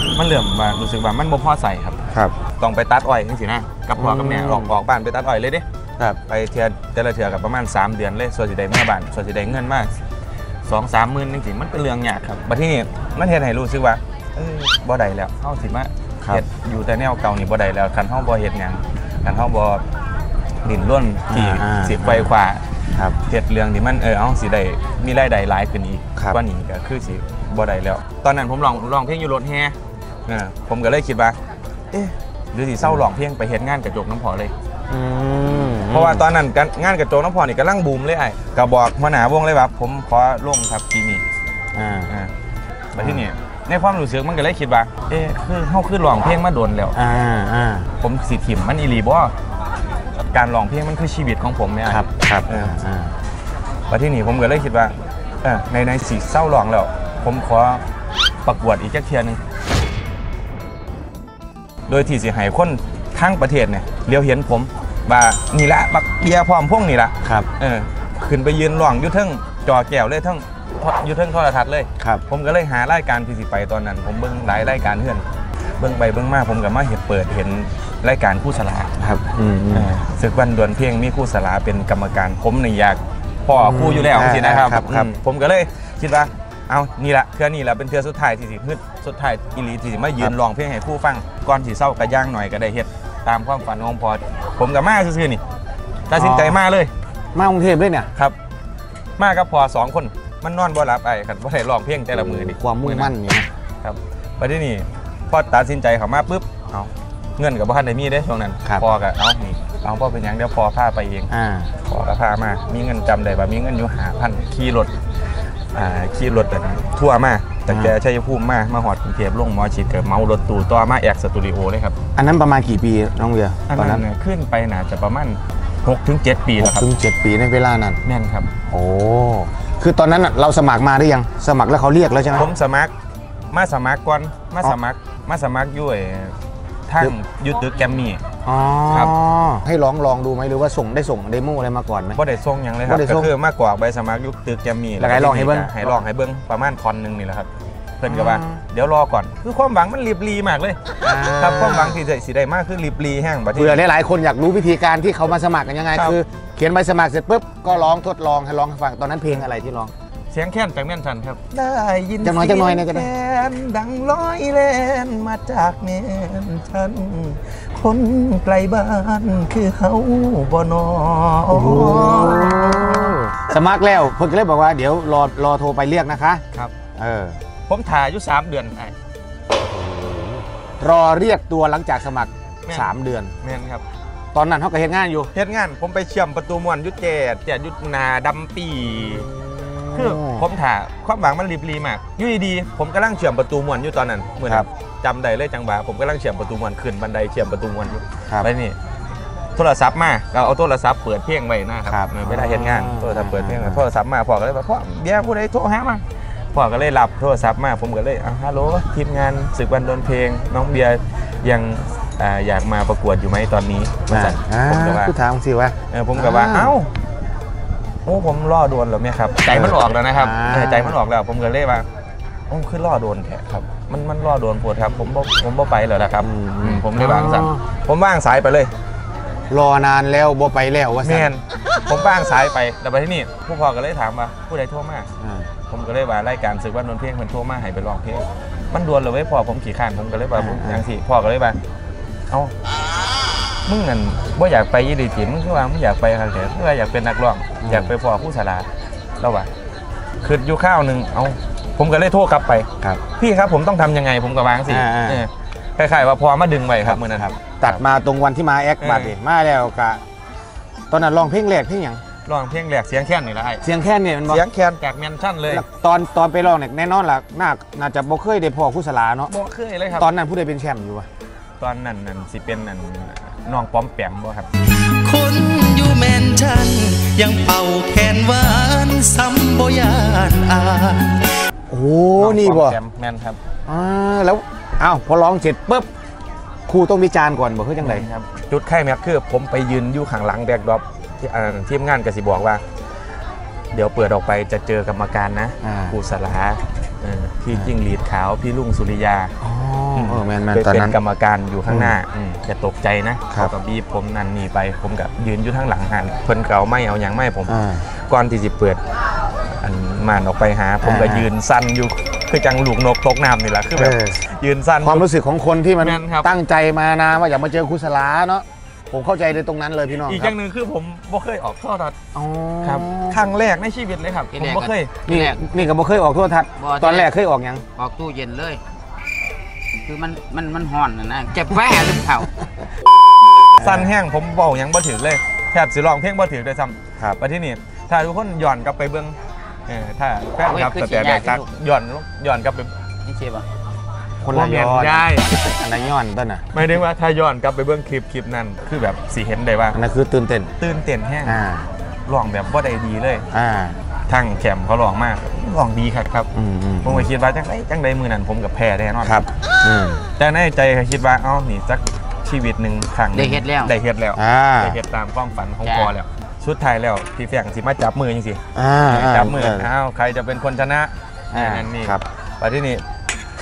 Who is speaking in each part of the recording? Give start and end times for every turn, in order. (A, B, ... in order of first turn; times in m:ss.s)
0:00.2-0:05.6 A
0:04.0-0:04.7 B
0:06.2-0:09.9 A
0:10.7-0:19.8 A
0:20.6-0:22.6 A
0:21.3-0:22.3 B
0:23.2-0:29.8 A
0:30.3-0:31.4 A
0:31.9-0:34.5 A
0:34.9-0:36.3 B
0:35.7-0:41.2 A
0:41.8-0:42.1 B
0:42.9-0:47.0 A
0:43.0-0:43.2 B
0:47.0-0:47.9 B
0:48.0-0:49.3 A
0:50.3-0:52.8 A
0:51.9-0:53.1 B
0:53.9-0:57.8 A
0:58.4-0:59.4 A
1:01.9-1:15.2 A
1:15.8-1:18.9 A
1:19.0-1:19.9 B
1:19.7-1:35.4 A
1:23.5-1:25.2 B
1:36.1-1:36.9 A
1:36.1-1:36.6 B
1:37.4-1:38.1 B
1:39.2-1:43.1 A
1:42.1-1:43.5 B
1:43.8-1:51.3 A
1:51.3-1:51.7 B
1:51.8-1:54.9 A
1:55.7-2:02.0 A
1:57.7-1:58.0 B
2:02.2-2:04.0 B
2:03.7-2:06.9 A
2:06.6-2:08.0 B
2:08.0-2:08.5 A
2:08.7-2:12.5 B
2:12.4-2:12.9 A
2:13.5-2:16.4 A
2:16.9-2:18.2 A
2:18.4-2:22.2 B
2:22.2-2:33.8 A
2:22.9-2:23.3 B
2:25.0-2:26.0 B
2:28.0-2:28.6 B
2:31.0-2:32.0 B
2:33.5-2:39.9 B
2:40.3-2:53.2 A
2:42.2-2:43.1 B
2:51.5-2:56.4 B
2:57.0-2:57.4 B
2:57.7-2:58.9 A
2:59.6-3:03.3 B
3:02.7-3:03.8 A
3:04.3-3:05.3 B
3:05.3-3:09.3 A
3:09.1-3:10.4 B
3:09.9-3:18.8 A
3:19.6-3:35.2 A
3:21.9-3:23.8 B
3:34.1-3:36.7 B
3:35.9-3:36.9 A
3:38.1-3:41.9 A
3:39.5-3:41.0 B
3:42.5-3:48.7 A
3:46.2-3:47.6 B
3:49.5-3:51.3 B
3:51.0-3:55.1 A
3:55.2-3:55.5 B
3:55.7-4:01.6 A
4:00.4-4:00.9 B
4:03.7-4:08.7 A
4:07.6-4:07.9 B
4:09.2-4:09.5 A
4:10.2-4:17.8 A
4:14.7-4:15.2 B
4:16.8-4:20.0 B
4:18.8-4:19.1 A
4:20.9-4:22.0 B
4:22.3-4:23.6 A
4:23.6-4:24.5 B
4:24.3-4:25.6 A
4:25.5-4:29.3 B
4:29.3-4:30.1 A
4:30.0-4:31.1 B
4:31.6-4:34.5 A
4:34.8-4:41.2 C
4:38.1-4:38.5 A
4:41.7-4:42.8 B
4:42.2-4:43.4 A
4:43.7-4:45.9 B
4:46.7-4:48.1 B
4:47.8-4:52.6 A
4:53.7-4:59.3 A
4:55.6-4:56.0 B
4:59.4-5:01.0 B
5:00.0-5:08.8 A
5:01.7-5:02.0 B
5:07.5-5:07.8 B
5:09.6-5:15.1 A
5:10.8-5:11.3 B
5:13.8-5:14.2 B
5:14.8-5:20.4 B
5:15.8-5:16.3 A
5:20.1-5:22.0 A
5:22.1-5:23.2 B
5:22.6-5:25.0 A
5:24.3-5:25.4 D
5:25.1-5:27.6 B
5:26.6-5:27.1 D
5:27.8-5:28.6 D
5:29.9-5:32.3 D
5:33.6-5:42.7 A
5:33.6-5:33.9 B
5:40.5-5:41.4 D
5:43.0-5:43.4 D
5:44.2-5:46.4 B
5:44.3-5:45.6 A
5:46.5-5:49.8 A
5:49.7-5:50.5 B
5:50.6-5:51.4 A
5:51.2-5:51.7 B
5:52.1-5:53.2 A
5:53.3-5:53.8 B
5:54.1-5:56.3 A
5:56.3-5:57.1 B
5:56.8-5:59.2 A
5:59.0-6:00.1 B
6:00.2-6:12.8 A
6:03.1-6:03.7 D
6:04.2-6:04.8 B
6:05.6-6:05.9 D
6:08.6-6:09.7 B
6:11.3-6:12.0 B